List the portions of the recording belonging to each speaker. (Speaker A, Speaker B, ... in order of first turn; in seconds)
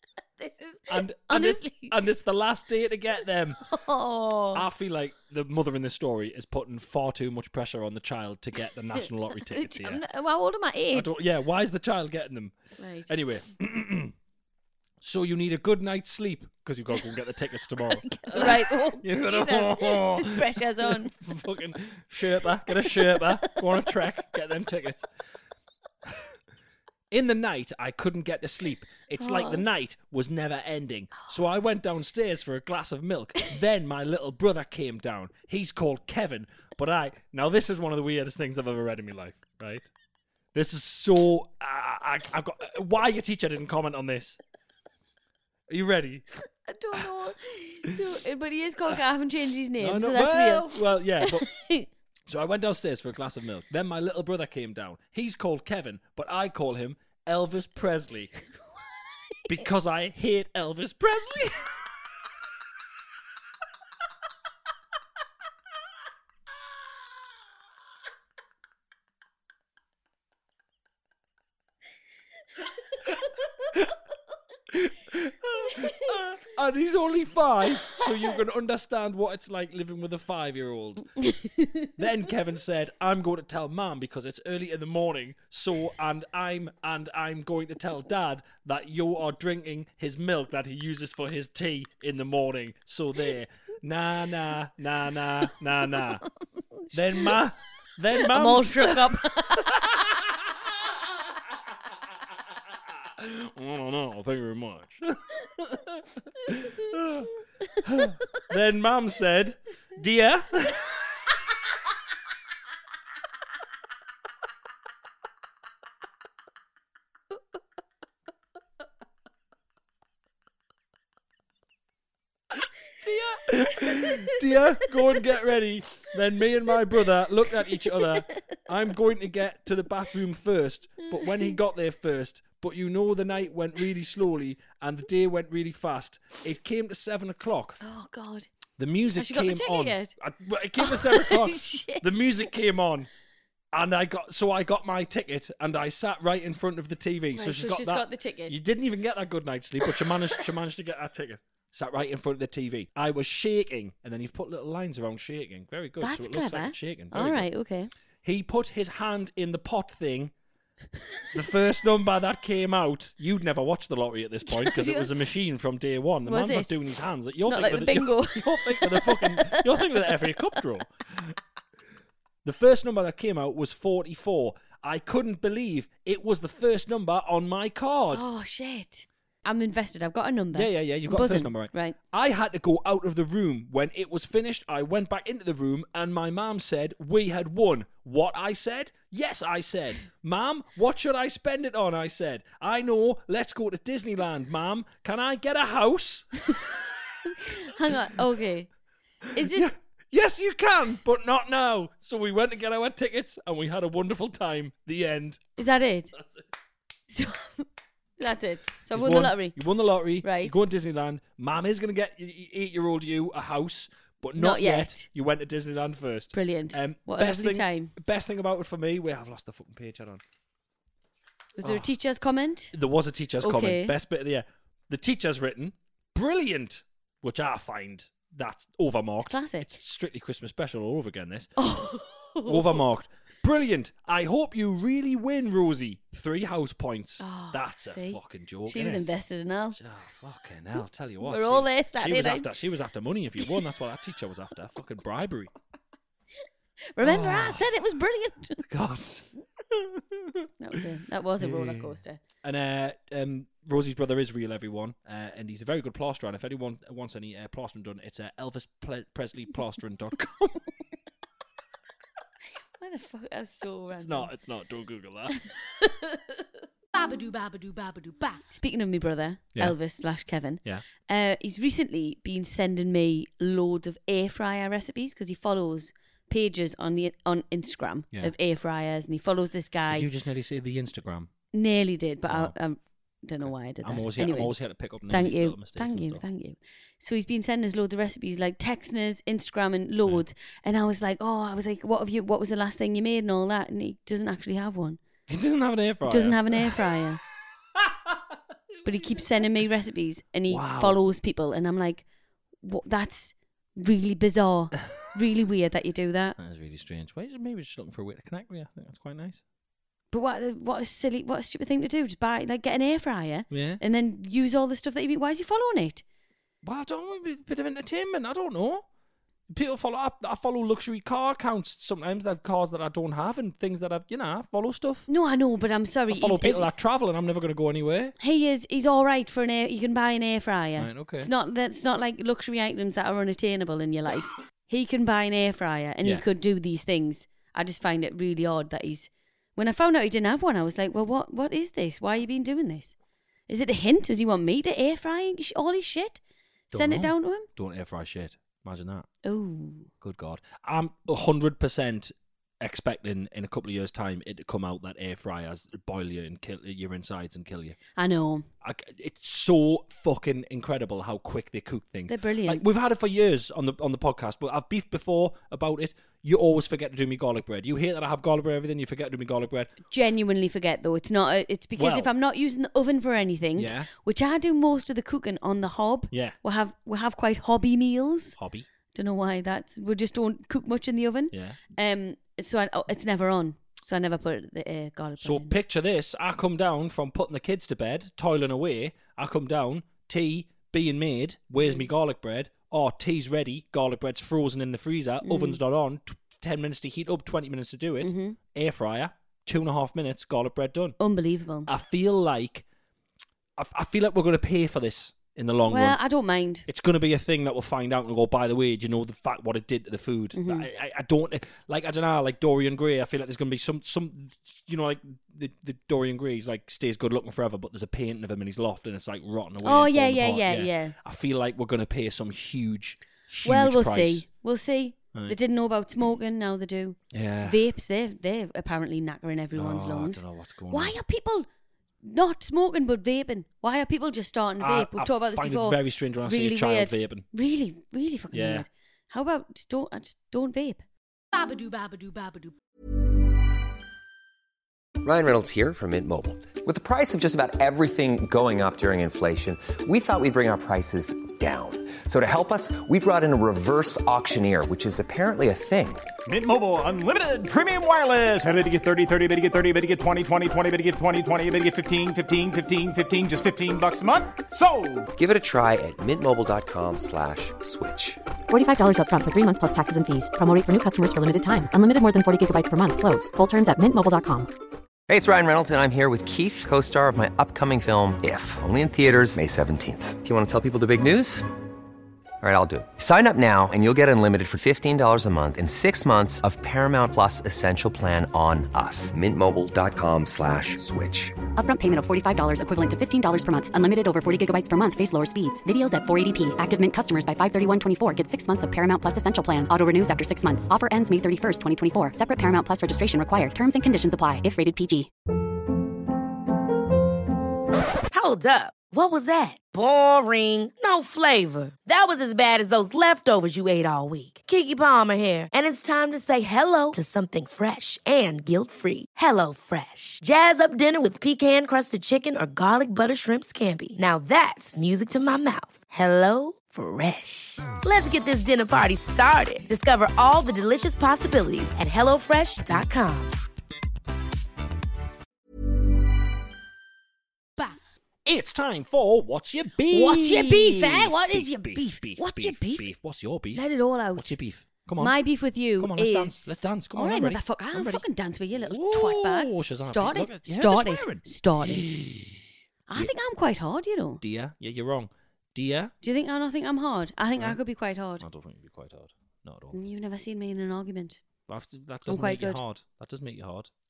Speaker A: 0.4-1.9, 3.6-4.6, 9.0-11.1, 12.8-13.1, 17.9-21.1, 22.8-23.6, 29.2-29.6, 46.7-51.9, 81.2-81.9, 98.2-99.8, 137.8-138.5, 139.2-140.1, 140.8-142.1, 147.3-148.6, 156.0-157.9, 164.5-165.1, 166.2-166.7, 167.4-170.1, 178.1-181.9, 197.4-198.7, 199.3-199.7, 205.6-206.1, 207.1-207.7, 208.2-209.6, 210.2-210.6, 214.3-215.1, 216.3-217.9, 221.6-222.7, 223.4-223.9, 229.2-229.7, 231.6-232.8, 237.2-239.8, 241.2-242.5, 246.9-248.6, 250.6-252.2, 262.8-264.3, 265.8-266.2, 268.5-280.1, 281.5-284.5, 285.1-295.0, 296.1-297.2, 298.8-302.0, 302.6-306.4, 310.1-316.0, 325.1-326.7, 328.2-342.9, 343.5-346.2, 346.7-347.5, 349.2-349.9, 358.0-358.4, 362.1-362.6, 369.9-378.4, 378.9-385.5, 395.2-395.6, 398.0-398.4, 401.0-401.7, 405.7-406.6, 410.3-410.6, 419.6-420.9, 423.4-431.5, 432.0-440.8, 539.9-542.9, 543.5-544.4, 545.0-552.0, 552.9-554.2, 556.0-558.2, 559.7-561.2, 562.1-562.6
Speaker B: 0.9-3.6, 4.5-10.0, 10.9-12.5, 13.1-14.1, 15.0-25.1, 27.1-39.9, 40.5-44.4, 45.7-46.2, 49.8-51.5, 52.3-58.3, 59.5-61.9, 74.7-81.1, 82.0-96.2, 96.9-100.7, 103.0-107.3, 107.8-110.8, 123.0-137.8, 138.8-143.1, 143.7-157.5, 158.2-160.3, 161.3-171.4, 172.4-178.3, 180.5-196.7, 199.4-205.5, 206.2-206.4, 208.9-220.2, 221.6-221.9, 222.7-231.5, 232.4-239.1, 239.7-245.5, 247.0-247.7, 248.6-250.5, 251.4-260.6, 264.0-265.4, 279.9-281.3, 282.3-282.5, 283.4-286.2, 295.3-296.9, 297.8-298.2, 298.8-299.4, 300.5-301.0, 306.4-309.4, 313.5-313.8, 316.6-318.8, 319.5-325.1, 326.1-328.1, 330.8-331.3, 346.7-349.1, 350.0-357.8, 358.6-369.7, 371.8-372.1, 373.6-373.9, 376.1-376.4, 378.4-378.6, 381.3-381.6, 385.2-401.0, 401.7-402.6, 403.6-406.0, 406.7-424.2, 427.1-427.6, 429.6-430.9, 434.6-437.3, 438.3-438.6, 538.2-545.2, 545.8-548.0, 548.5-552.4, 554.2-555.9, 558.2-559.8, 561.5-563.7
Speaker C: 266.9-268.4, 441.3-442.5
Speaker D: 445.0-456.1, 465.1-468.2, 475.1-481.4, 482.4-491.3
Speaker E: 456.2-465.1
Speaker F: 468.5-474.5, 491.6-505.1
Speaker G: 508.1-533.4